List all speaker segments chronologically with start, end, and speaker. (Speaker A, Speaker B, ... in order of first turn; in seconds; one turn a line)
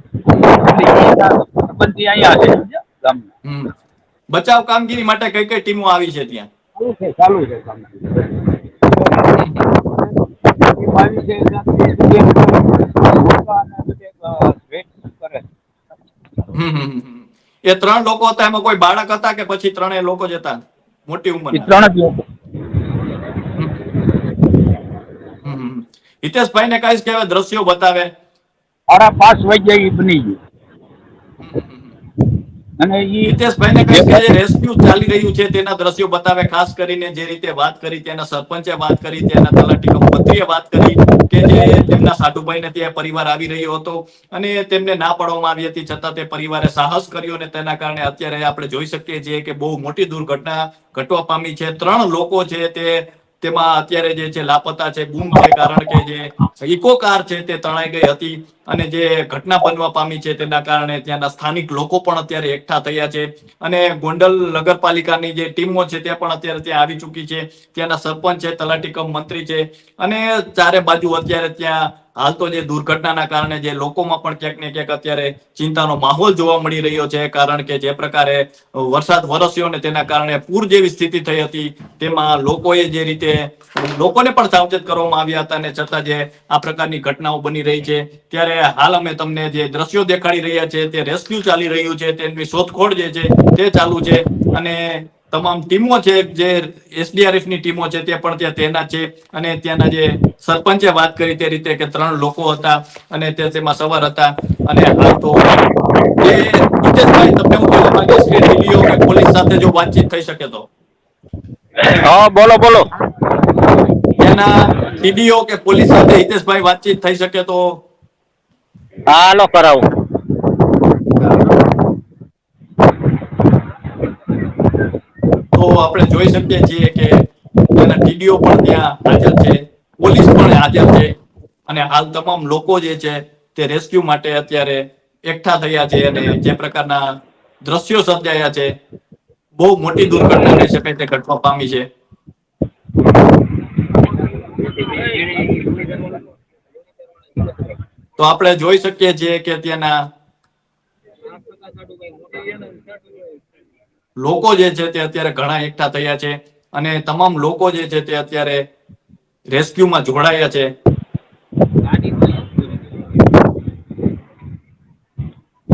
Speaker A: 0.3-0.6
Speaker B: 0.4-3.3
Speaker A: 3.5-3.7
Speaker A: 4.3-6.5
Speaker B: 6.8-8.5
Speaker A: 9.3-9.7
Speaker B: 9.9-15.5
Speaker A: 16.5-21.7
Speaker B: 21.5-22.2
Speaker A: 23.6-23.9
Speaker A: 25.4-28.1
Speaker B: 28.9-30.4
Speaker A: 31.4-31.9
Speaker B: 32.8-33.4
Speaker A: 33.2-105.6
Speaker B: 33.9-34.2
Speaker A: 106.2-110.7
Speaker C: 111.8-112.9
Speaker A: 114.2-117.8
Speaker C: 119.1-119.9
Speaker A: 125.5-131.1
Speaker A: 131.7-137.1
Speaker A: 137.7-138.7
Speaker A: 139.6-141.9
Speaker A: 148.2-150.0
Speaker A: 154.2-158.6
Speaker A: 159.5-160.7